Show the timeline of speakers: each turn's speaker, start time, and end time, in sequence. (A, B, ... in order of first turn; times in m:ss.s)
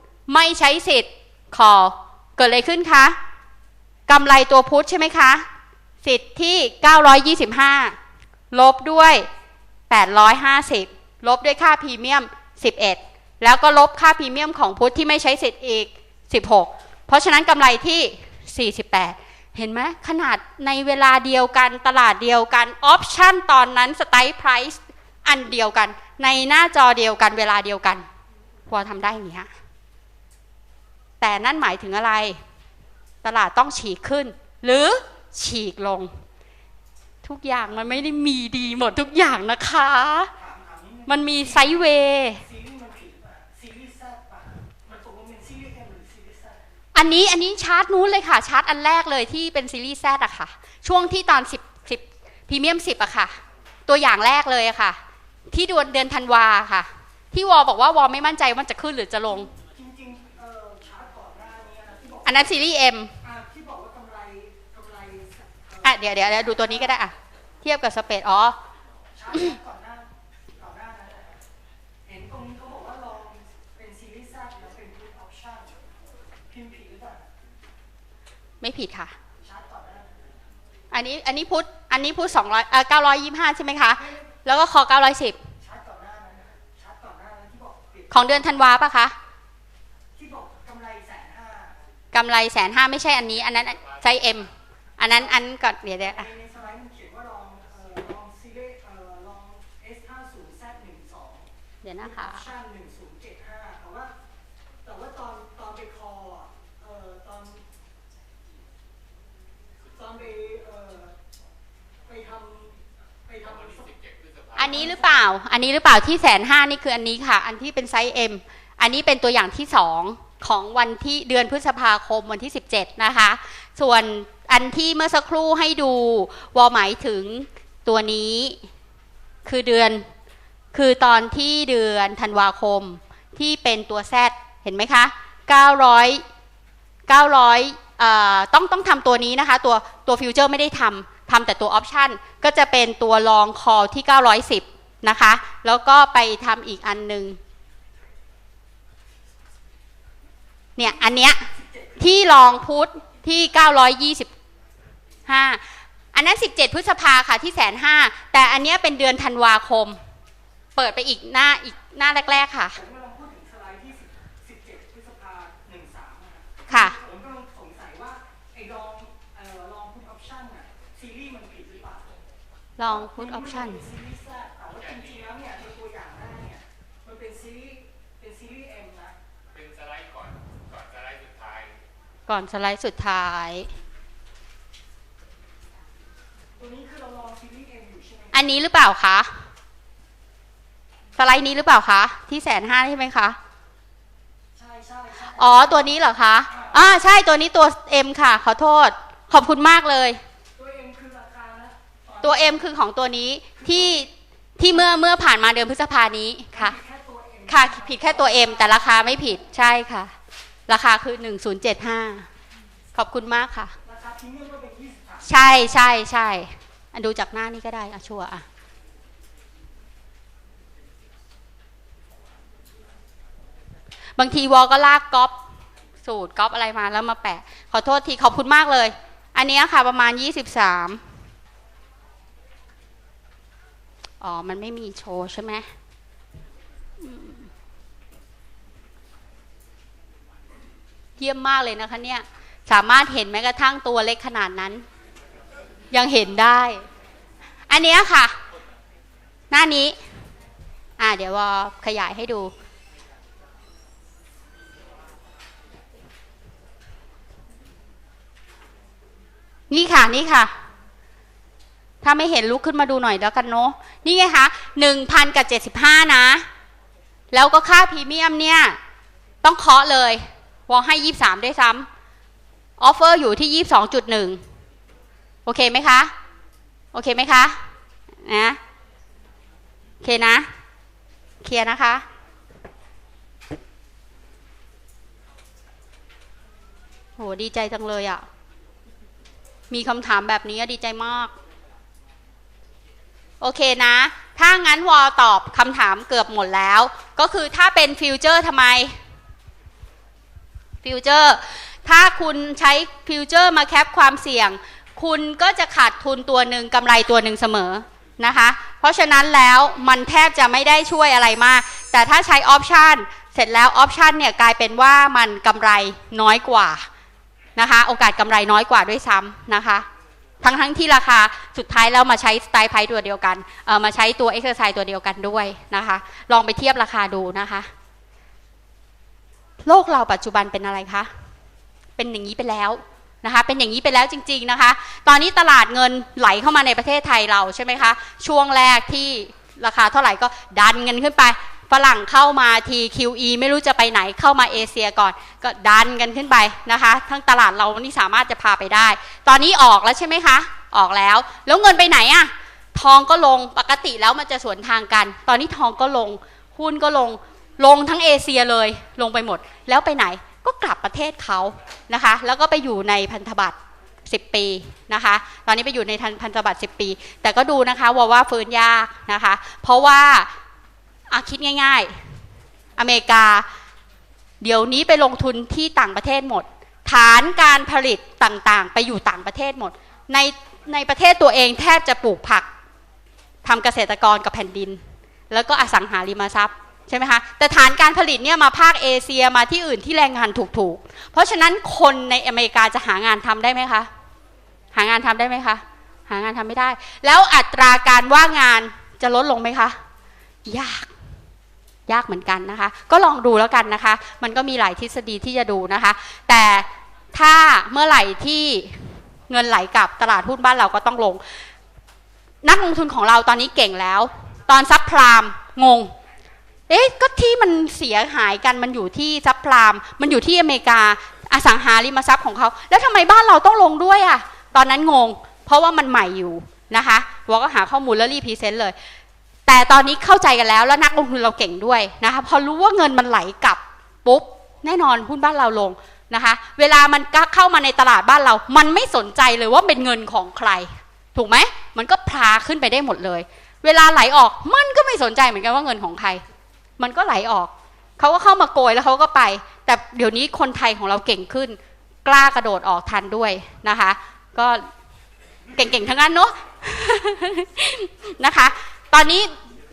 0:00.3-0:03.2 A
0:04.1-0:05.4 A
0:06.0-0:08.0 A
0:08.5-0:09.3 A
0:09.9-0:28.1 A
0:28.7-0:29.5 A
0:31.2-0:32.4 A
0:33.2-0:36.1 A
0:37.2-0:40.3 A
0:40.4-0:41.9 B
0:41.1-0:42.4 A
0:42.4-0:46.6 B
0:47.0-0:55.0 A
0:55.5-0:59.5 A
0:59.5-1:02.5 B
1:02.2-1:03.1 A
1:03.2-1:07.0 B
1:05.8-1:08.6 A
1:09.2-1:11.4 B
1:12.1-1:15.9 B
1:16.5-1:17.3 B
1:18.6-1:19.1 A
1:19.4-1:20.5 B
1:20.9-1:25.4 A
1:25.6-1:28.6 B
1:28.1-1:29.2 A
1:30.2-1:31.8 B
1:32.1-1:36.3 A
1:36.0-1:41.5 B
1:41.8-1:42.4 A
1:42.0-1:44.1 B
1:44.8-1:47.6 B
1:49.9-1:51.2 B
1:52.1-1:54.0 B
1:53.9-1:54.7 C
1:54.6-1:55.3 B
1:54.6-2:08.6 A
2:09.4-2:10.1 A
2:10.7-2:16.2 A
2:17.1-2:27.4 A
2:30.8-2:31.5 A
2:31.5-2:32.4 B
2:32.0-2:34.3 A
2:35.3-2:35.6 A
2:36.1-2:40.0 A
2:40.8-2:42.8 A
2:42.7-2:52.2 B
2:46.7-2:47.0 A
2:52.8-2:53.8 A
2:52.8-2:59.2 B
2:59.5-3:01.8 C
3:02.3-3:03.7 A
3:06.6-3:08.5 B
3:08.3-3:09.3 A
3:11.2-3:13.4 A
3:14.6-3:16.0 B
3:15.3-3:20.2 A
3:16.5-3:16.9 B
3:20.6-3:22.7 B
3:22.2-3:26.8 A
3:23.6-3:24.1 B
3:26.5-3:29.4 B
3:27.5-3:30.1 A
3:30.7-3:32.3 A
3:33.0-3:33.7 A
3:33.8-3:35.7 B
3:35.3-3:38.4 A
3:44.2-3:45.3 A
3:46.0-3:51.0 A
3:54.2-3:55.7 A
3:57.0-3:57.3 A
4:01.2-4:04.8 A
4:05.9-4:06.8 A
4:07.7-4:08.4 A
4:09.5-4:10.0 A
4:11.0-4:12.5 A
4:19.7-4:20.6 A
4:22.0-4:26.5 A
4:27.3-4:28.8 A
4:29.4-4:31.9 A
4:32.8-4:34.4 A
4:35.5-4:36.1 A
4:36.9-4:37.6 A
4:38.2-4:38.6 A
4:40.0-4:40.5 A
4:41.4-4:42.0 A
4:47.2-4:48.3 A
4:49.7-4:51.3 A
4:53.4-4:59.0 A
5:00.8-5:16.9 A
5:17.6-5:19.9 A
5:20.4-5:27.7 A
5:29.6-5:31.1 A
5:32.0-6:10.3 A
6:11.1-6:11.9 A
6:12.8-6:13.5 A
6:14.4-6:22.5 A
6:23.4-6:33.9 A
6:34.7-6:39.8 A
6:40.5-6:40.9 A
6:41.9-6:51.2 A
6:52.4-6:55.9 A
6:56.7-7:08.8 A
7:09.5-7:26.2 A
7:26.8-7:34.7 A
7:35.6-7:39.3 A